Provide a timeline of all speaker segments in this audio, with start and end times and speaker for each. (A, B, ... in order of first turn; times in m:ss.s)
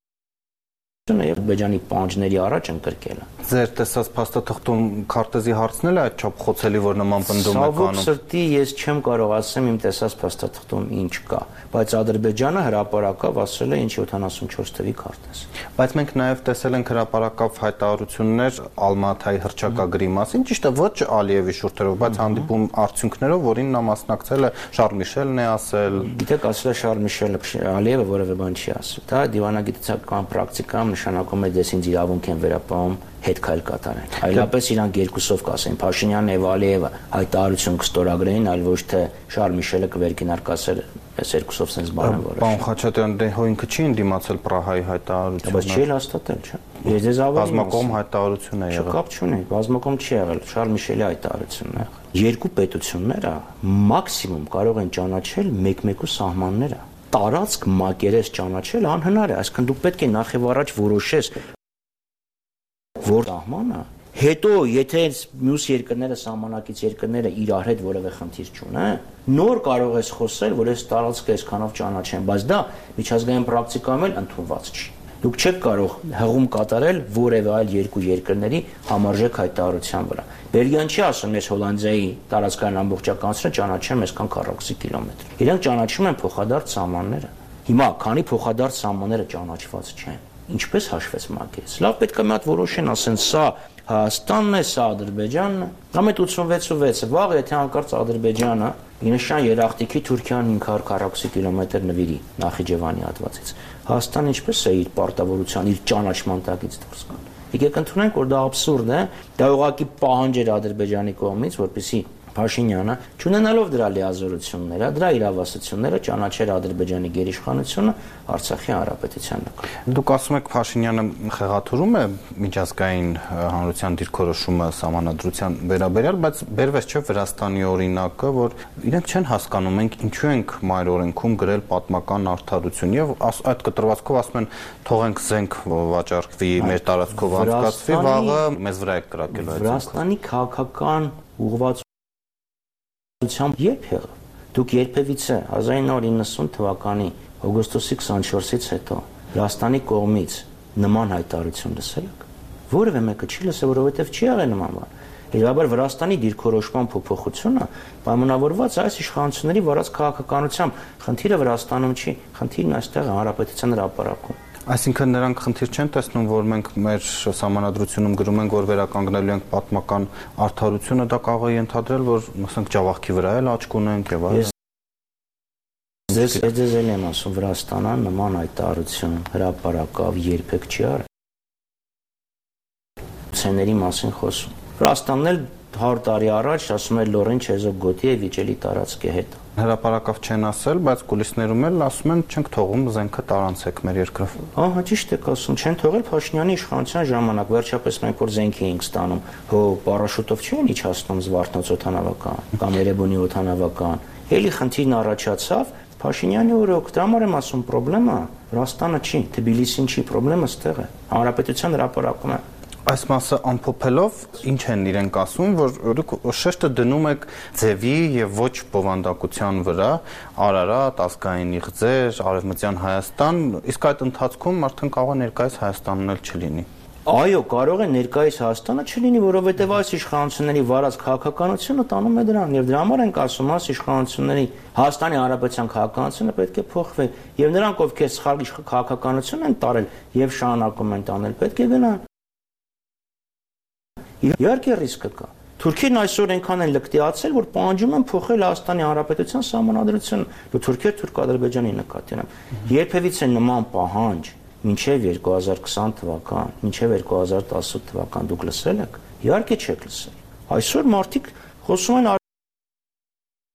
0:01.1-0:03.3 A
0:03.5-0:08.1 B
0:07.2-0:15.5 A
0:15.8-0:26.1 B
0:26.1-0:42.6 A
0:42.0-0:45.8 B
0:45.4-0:48.0 A
0:47.4-0:49.0 B
0:48.7-1:01.4 A
1:03.0-1:59.7 A
1:59.9-2:19.9 B
2:16.6-2:18.4 A
2:19.3-2:21.8 A
2:23.2-2:44.4 A
2:44.7-2:54.5 B
2:56.1-3:01.0 A
3:03.3-3:09.4 A
3:09.6-3:14.4 B
3:14.5-3:32.4 A
3:32.9-3:46.7 B
3:47.1-4:02.0 A
4:04.2-4:22.2 A